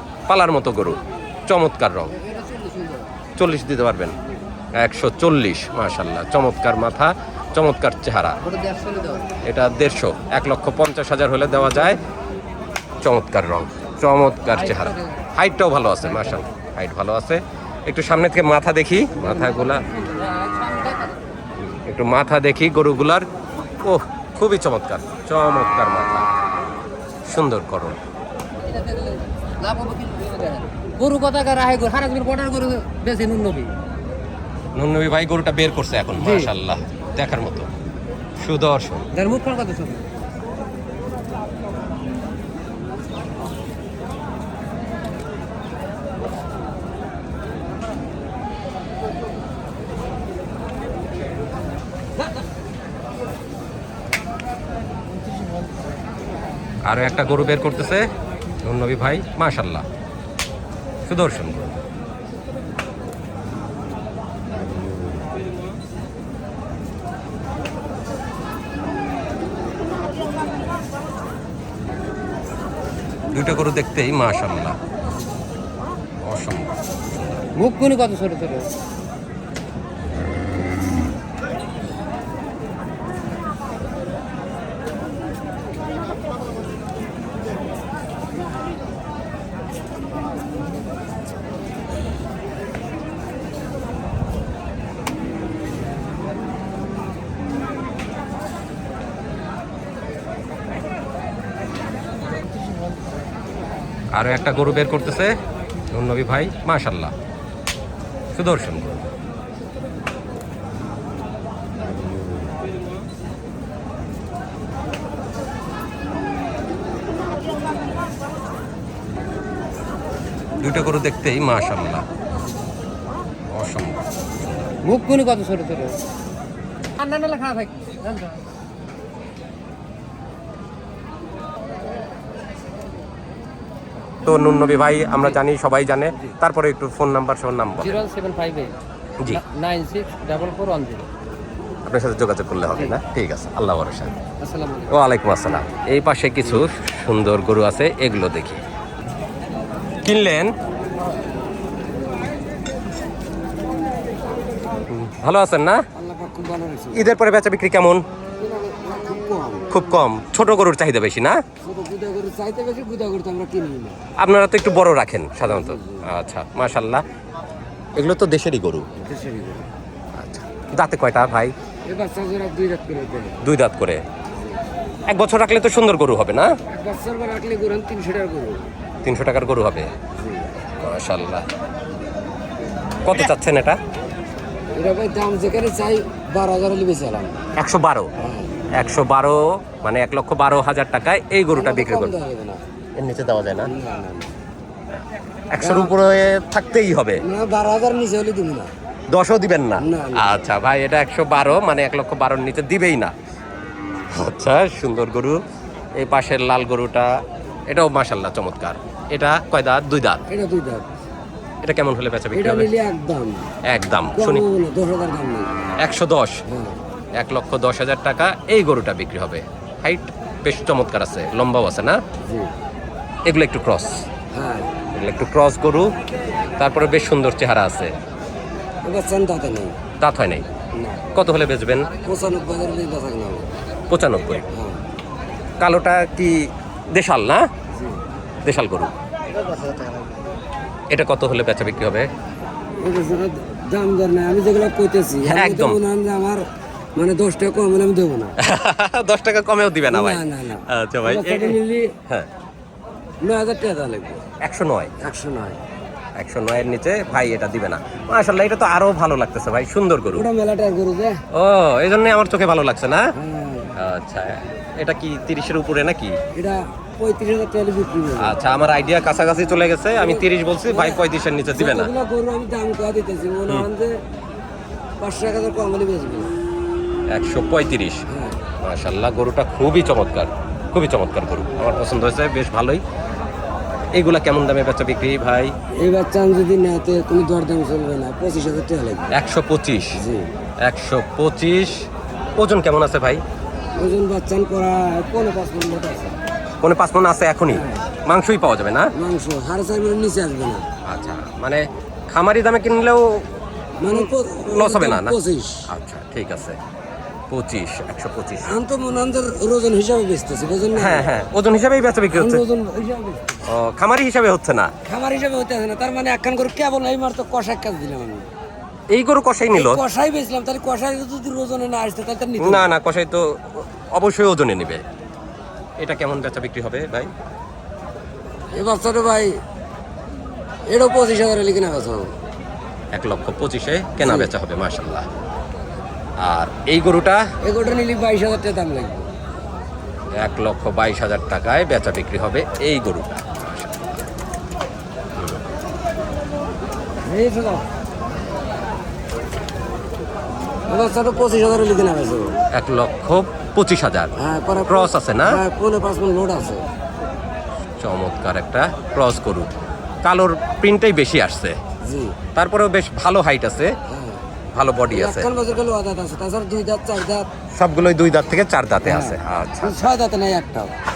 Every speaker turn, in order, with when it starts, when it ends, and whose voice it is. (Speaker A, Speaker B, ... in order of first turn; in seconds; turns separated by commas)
Speaker A: 0.3-2.1, Speaker B: 2.1-3.1, Speaker A: 3.4-4.2, Speaker A: 4.8-8.4, Speaker B: 8.4-9.3, Speaker A: 9.4-12.0, Speaker A: 13.0-19.8, Speaker B: 14.6-15.3, Speaker B: 16.0-16.5, Speaker B: 19.2-21.3, Speaker A: 21.6-23.3, Speaker A: 23.8-26.3, Speaker A: 27.3-28.0, Speaker B: 28.6-33.7, Speaker A: 34.8-37.7, Speaker B: 36.2-36.5, Speaker A: 38.4-39.1, Speaker B: 39.1-40.1, Speaker A: 56.9-58.1, Speaker A: 58.6-59.9, Speaker A: 61.1-61.8, Speaker A: 73.3-74.8, Speaker A: 76.2-76.7, Speaker B: 77.6-78.7, Speaker A: 104.1-105.4, Speaker A: 105.9-107.1, Speaker A: 108.3-109.1, Speaker A: 120.6-122.0, Speaker A: 123.5-124.7, Speaker B: 124.8-126.0, Speaker B: 127.0-128.4, Speaker A: 134.2-138.0, Speaker B: 137.8-138.7, Speaker B: 139.3-141.1, Speaker A: 141.9-144.1, Speaker B: 144.4-144.9, Speaker A: 144.9-148.6, Speaker A: 150.0-150.5, Speaker A: 154.9-155.8, Speaker C: 155.9-157.1, Speaker A: 156.9-158.0, Speaker C: 158.4-159.7, Speaker A: 159.7-161.4, Speaker C: 161.6-164.0, Speaker A: 164.2-167.0, Speaker C: 165.4-166.1, Speaker A: 167.9-168.9, Speaker C: 168.9-169.7, Speaker A: 170.2-171.5, Speaker C: 171.9-173.4, Speaker A: 173.4-174.0, Speaker A: 175.1-176.5, Speaker C: 176.7-178.7, Speaker A: 179.0-179.9, Speaker C: 180.1-180.5, Speaker A: 180.8-181.4, Speaker A: 183.0-183.8, Speaker C: 184.7-187.4, Speaker A: 187.6-188.1, Speaker C: 188.2-188.6, Speaker A: 188.7-192.1, Speaker C: 191.5-192.6, Speaker A: 192.9-193.7, Speaker C: 193.6-194.3, Speaker A: 195.5-197.2, Speaker C: 195.6-195.9, Speaker C: 197.2-198.7, Speaker A: 199.1-203.1, Speaker C: 199.8-200.2, Speaker A: 204.1-205.4, Speaker A: 205.9-210.2, Speaker C: 210.3-210.9, Speaker A: 211.6-212.7, Speaker C: 212.3-213.5, Speaker A: 213.6-214.4, Speaker C: 214.1-215.5, Speaker A: 215.8-216.4, Speaker C: 216.5-216.8, Speaker A: 217.2-222.0, Speaker C: 222.2-222.5, Speaker A: 223.3-224.0, Speaker C: 224.3-224.7, Speaker A: 224.9-225.9, Speaker A: 226.6-227.9, Speaker C: 228.8-229.8, Speaker A: 230.0-230.5, Speaker C: 230.8-231.0, Speaker A: 231.1-231.9, Speaker C: 232.0-233.5, Speaker A: 233.9-234.4, Speaker C: 234.5-234.8, Speaker A: 235.6-237.5, Speaker C: 237.7-238.0, Speaker A: 238.4-238.9, Speaker C: 239.3-240.2, Speaker A: 240.9-242.1, Speaker C: 242.8-246.4, Speaker A: 245.3-245.8, Speaker C: 246.9-248.4, Speaker A: 248.4-252.3, Speaker C: 249.9-251.9, Speaker C: 253.2-254.2, Speaker A: 254.4-254.9, Speaker C: 255.0-255.6, Speaker A: 256.2-260.3, Speaker C: 260.1-261.2, Speaker A: 261.3-263.1, Speaker C: 263.2-263.8, Speaker A: 263.8-266.2, Speaker C: 266.4-268.4, Speaker A: 268.2-271.9, Speaker C: 270.0-271.0, Speaker C: 271.6-274.0, Speaker C: 275.0-276.4, Speaker A: 277.1-278.0, Speaker C: 278.1-278.4, Speaker A: 278.6-282.8, Speaker A: 283.9-285.5, Speaker C: 285.8-289.1, Speaker A: 289.1-290.0, Speaker C: 289.9-290.3, Speaker A: 290.6-293.2, Speaker C: 293.8-296.2, Speaker A: 296.6-298.9, Speaker C: 297.5-297.8, Speaker C: 298.9-300.7, Speaker A: 300.9-303.3, Speaker C: 303.8-305.6, Speaker A: 303.9-305.2, Speaker A: 305.7-306.6, Speaker A: 307.3-308.6, Speaker C: 308.5-311.1, Speaker A: 310.8-312.4, Speaker C: 312.1-313.4, Speaker A: 313.4-314.7, Speaker C: 314.9-318.3, Speaker A: 318.9-319.8, Speaker C: 319.5-322.7, Speaker A: 322.4-324.8, Speaker A: 325.8-327.1, Speaker C: 328.5-329.4, Speaker C: 330.7-332.1, Speaker A: 332.9-335.1, Speaker C: 334.0-334.3, Speaker A: 336.2-337.2, Speaker C: 337.4-339.1, Speaker A: 340.2-344.1, Speaker A: 345.2-345.4, Speaker C: 347.0-347.7, Speaker C: 350.7-352.4, Speaker A: 352.5-354.1, Speaker C: 354.2-356.7, Speaker A: 354.7-355.4, Speaker A: 357.8-361.6, Speaker C: 361.8-362.2, Speaker A: 362.4-363.8, Speaker C: 363.9-364.2, Speaker A: 364.5-365.3, Speaker C: 364.9-367.3, Speaker A: 367.6-369.9, Speaker C: 368.8-370.7